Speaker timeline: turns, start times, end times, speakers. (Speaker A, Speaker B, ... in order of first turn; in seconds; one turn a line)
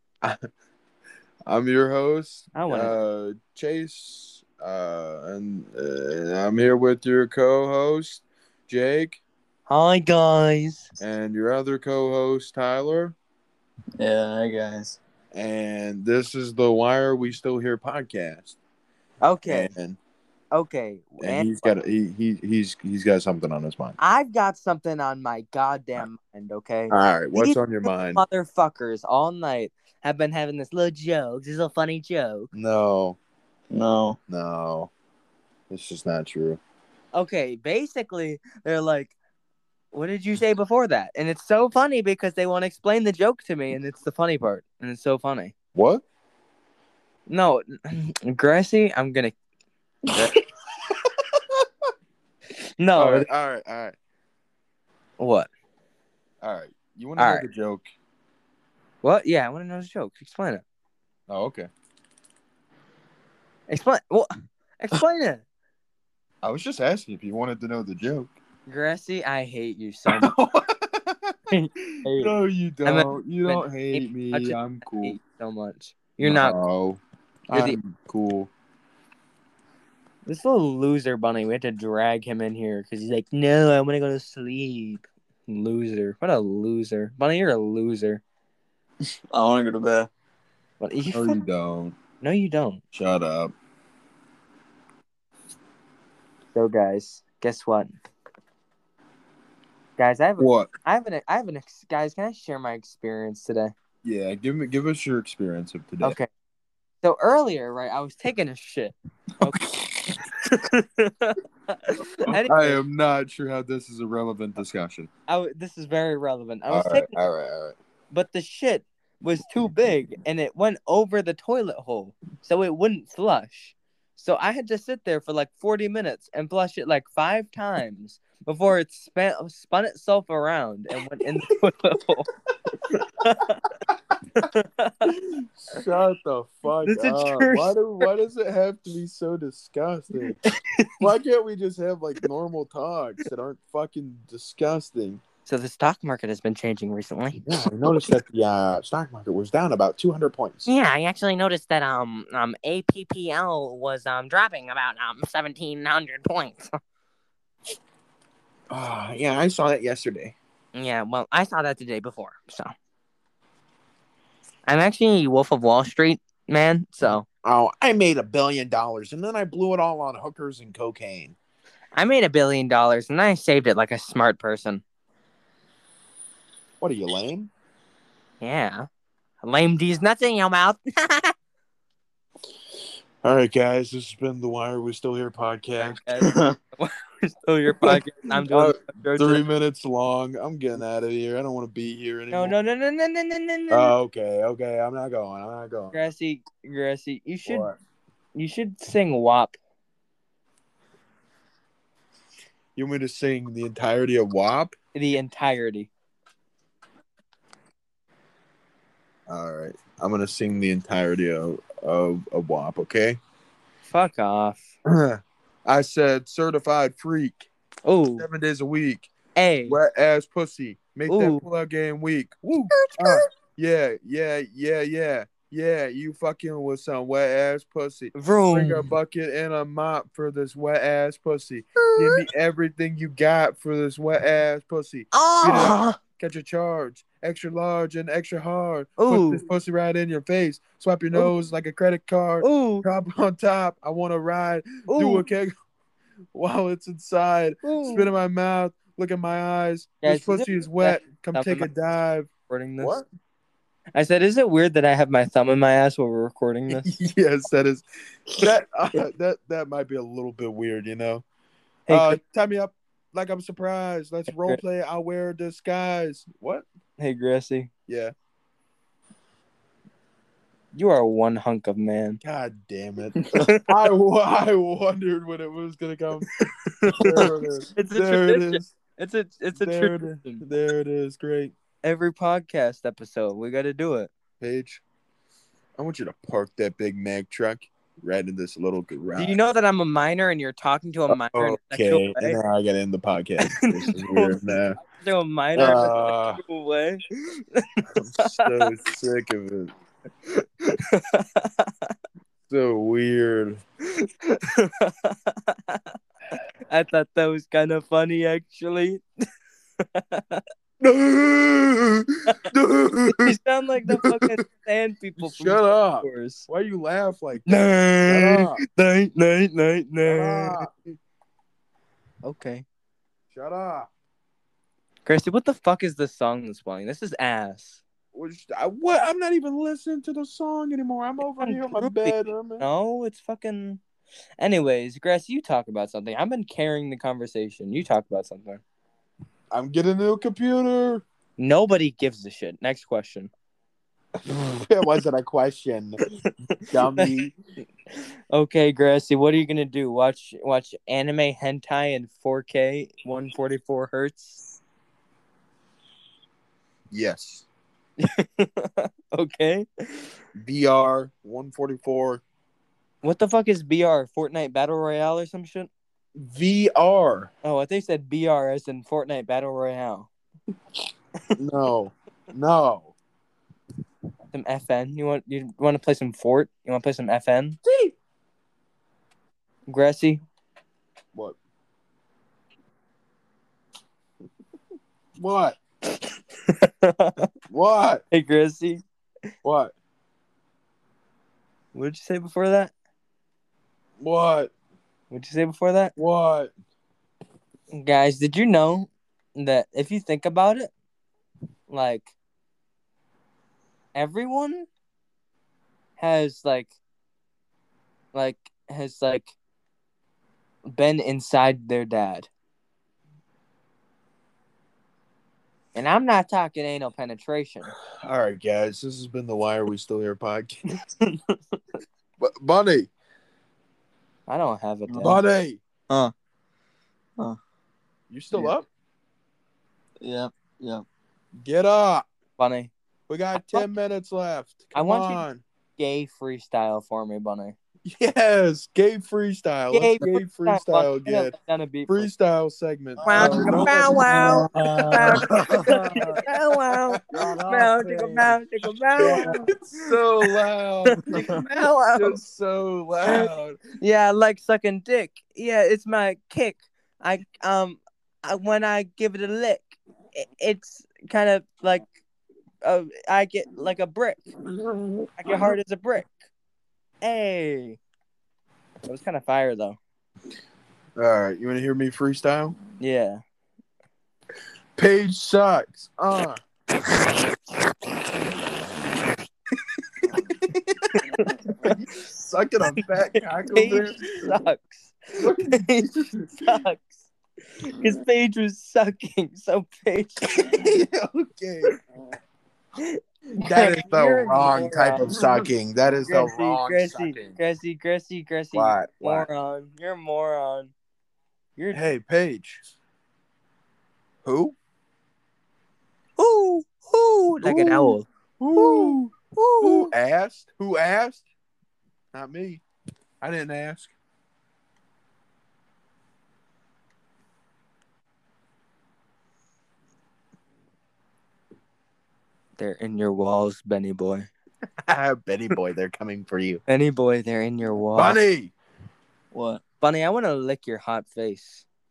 Speaker A: 1.5-9.2
Speaker B: 2.5-2.9
Speaker B: 9.7-10.9
Speaker A: 11.0-13.1
Speaker C: 14.0-15.0
Speaker A: 15.3-18.6
Speaker B: 19.2-19.7
Speaker A: 19.4-20.0
Speaker B: 20.5-21.8
Speaker A: 21.2-24.0
Speaker B: 24.0-32.5
Speaker A: 26.9-28.2
Speaker A: 32.5-33.2
Speaker C: 33.7-34.2
Speaker A: 34.3-34.9
Speaker A: 35.7-36.6
Speaker B: 37.1-39.1
Speaker B: 39.9-45.5
Speaker A: 45.7-46.0
Speaker B: 47.3-49.3
Speaker B: 52.8-53.3
Speaker A: 52.9-53.9
Speaker B: 55.2-55.5
Speaker A: 56.4-57.9
Speaker B: 57.2-57.5
Speaker B: 59.0-60.6
Speaker A: 61.3-61.7
Speaker B: 63.7-65.4
Speaker A: 66.4-68.3
Speaker B: 68.7-70.3
Speaker A: 70.1-71.3
Speaker B: 71.5-76.5
Speaker A: 72.1-75.2
Speaker A: 76.2-78.5
Speaker B: 77.5-77.8
Speaker B: 80.2-88.2
Speaker C: 89.3-90.1
Speaker B: 90.8-91.4
Speaker A: 91.1-92.0
Speaker B: 92.2-92.8
Speaker A: 92.9-93.5
Speaker B: 96.5-98.0
Speaker B: 100.0-103.7
Speaker A: 100.4-100.7
Speaker A: 104.0-106.2
Speaker B: 106.0-106.3
Speaker B: 107.0-109.8
Speaker B: 110.4-112.8
Speaker A: 112.2-115.1
Speaker B: 115.3-117.1
Speaker A: 116.7-117.8
Speaker B: 118.1-132.3
Speaker B: 132.9-133.7
Speaker B: 134.4-135.1
Speaker A: 135.1-140.3
Speaker B: 136.8-137.8
Speaker B: 140.4-141.1
Speaker A: 141.0-145.2
Speaker B: 145.4-148.1
Speaker A: 147.5-150.7
Speaker B: 150.7-156.7
Speaker A: 158.7-160.3
Speaker B: 160.7-162.7
Speaker B: 164.7-167.2
Speaker A: 167.0-171.3
Speaker B: 171.9-174.8
Speaker A: 176.8-177.5
Speaker B: 178.4-178.8
Speaker B: 179.4-181.3
Speaker A: 183.2-186.0
Speaker B: 185.8-189.4
Speaker A: 187.8-192.5
Speaker B: 192.3-193.9
Speaker A: 193.7-196.0
Speaker B: 195.9-197.7
Speaker A: 197.4-197.8
Speaker B: 198.3-199.5
Speaker A: 202.8-204.7
Speaker B: 204.9-205.9
Speaker A: 209.3-213.2
Speaker B: 213.9-214.7
Speaker A: 214.8-217.5
Speaker B: 217.8-218.2
Speaker A: 218.2-219.1
Speaker B: 219.3-219.8
Speaker A: 219.7-245.5
Speaker B: 221.1-221.4
Speaker B: 222.7-223.2
Speaker B: 228.1-228.9
Speaker B: 231.8-232.2
Speaker B: 235.1-236.0
Speaker B: 239.0-239.4
Speaker B: 242.4-242.8
Speaker B: 244.9-245.2
Speaker A: 246.3-253.1
Speaker B: 247.6-248.1
Speaker B: 250.0-251.7
Speaker B: 252.5-253.0
Speaker B: 253.9-256.9
Speaker A: 256.7-257.8
Speaker A: 258.3-261.2
Speaker B: 261.9-262.2
Speaker A: 261.9-266.7
Speaker B: 264.3-264.6
Speaker B: 267.0-267.7
Speaker A: 267.9-268.1
Speaker B: 270.7-272.2
Speaker A: 272.2-276.3
Speaker B: 273.2-273.6
Speaker B: 276.3-280.4
Speaker A: 276.9-278.7
Speaker C: 277.0-277.3
Speaker A: 279.5-281.5
Speaker B: 281.8-284.1
Speaker A: 284.4-284.8
Speaker A: 285.8-289.4
Speaker B: 289.2-292.4
Speaker A: 291.1-294.8
Speaker B: 293.4-297.8
Speaker A: 295.5-296.4
Speaker A: 297.9-299.7
Speaker B: 300.3-301.9
Speaker A: 302.5-303.6
Speaker B: 304.0-305.9
Speaker B: 306.7-309.0
Speaker B: 309.9-310.4
Speaker A: 310.8-313.3
Speaker B: 313.1-316.5
Speaker A: 313.9-314.4
Speaker A: 315.2-318.6
Speaker B: 317.4-320.6
Speaker A: 320.0-320.7
Speaker B: 322.2-322.6
Speaker A: 323.3-323.9
Speaker B: 325.1-327.8
Speaker A: 328.1-332.6
Speaker B: 331.4-333.8
Speaker B: 334.4-338.6
Speaker A: 339.5-341.0
Speaker B: 341.4-343.3
Speaker A: 344.2-346.0
Speaker B: 346.2-347.1
Speaker A: 346.7-347.3
Speaker B: 347.9-354.4
Speaker A: 356.9-357.5
Speaker B: 358.0-360.1
Speaker A: 360.4-362.2
Speaker B: 363.0-365.7
Speaker A: 366.1-367.3
Speaker B: 367.4-370.1
Speaker A: 371.4-372.9
Speaker B: 374.3-377.6
Speaker A: 377.6-377.9
Speaker B: 379.7-380.2
Speaker A: 385.2-385.6
Speaker B: 386.5-387.1
Speaker A: 387.5-388.0
Speaker B: 388.1-388.8
Speaker A: 389.4-389.7
Speaker B: 391.7-392.7
Speaker A: 394.0-394.5
Speaker B: 395.1-395.9
Speaker A: 395.9-396.5
Speaker B: 397.7-400.7
Speaker B: 401.7-402.1
Speaker B: 403.9-404.7
Speaker B: 406.0-406.8
Speaker B: 408.1-409.3
Speaker B: 410.7-412.3
Speaker B: 415.7-417.7
Speaker A: 418.0-420.6
Speaker B: 421.0-421.6
Speaker A: 422.2-422.9
Speaker B: 424.3-425.2
Speaker C: 424.9-425.1
Speaker A: 425.0-425.6
Speaker A: 428.1-428.7
Speaker C: 430.0-430.8
Speaker A: 431.4-432.1
Speaker B: 432.4-432.7
Speaker A: 433.1-435.4
Speaker B: 433.3-433.7
Speaker B: 434.7-435.3
Speaker B: 435.8-437.5
Speaker A: 437.9-441.3
Speaker B: 439.7-442.1
Speaker A: 441.9-447.4
Speaker C: 443.0-446.2
Speaker B: 443.0-449.4
Speaker C: 447.1-448.4
Speaker C: 449.0-449.4
Speaker A: 449.0-451.1
Speaker B: 450.9-452.2
Speaker A: 451.9-453.6
Speaker B: 453.0-461.9
Speaker B: 462.6-464.3
Speaker A: 464.6-465.5
Speaker B: 465.2-466.1
Speaker B: 467.0-467.8
Speaker B: 468.9-469.8
Speaker A: 471.0-472.6
Speaker B: 472.8-473.2
Speaker A: 474.8-476.4
Speaker A: 480.1-480.8
Speaker B: 480.9-481.8
Speaker A: 481.6-484.0
Speaker B: 482.7-487.1
Speaker A: 485.2-486.6
Speaker B: 487.6-490.5
Speaker A: 490.3-491.7
Speaker B: 492.8-495.1
Speaker A: 493.4-497.4
Speaker B: 496.1-500.7
Speaker A: 498.5-499.3
Speaker B: 501.6-501.8
Speaker A: 501.7-502.8
Speaker A: 504.2-504.6
Speaker B: 506.2-509.9
Speaker A: 507.4-511.3
Speaker A: 512.1-512.6
Speaker A: 513.2-513.9
Speaker B: 522.6-524.3
Speaker A: 524.9-526.6
Speaker B: 526.7-528.2
Speaker A: 527.9-528.5
Speaker C: 529.3-529.6
Speaker B: 529.8-531.6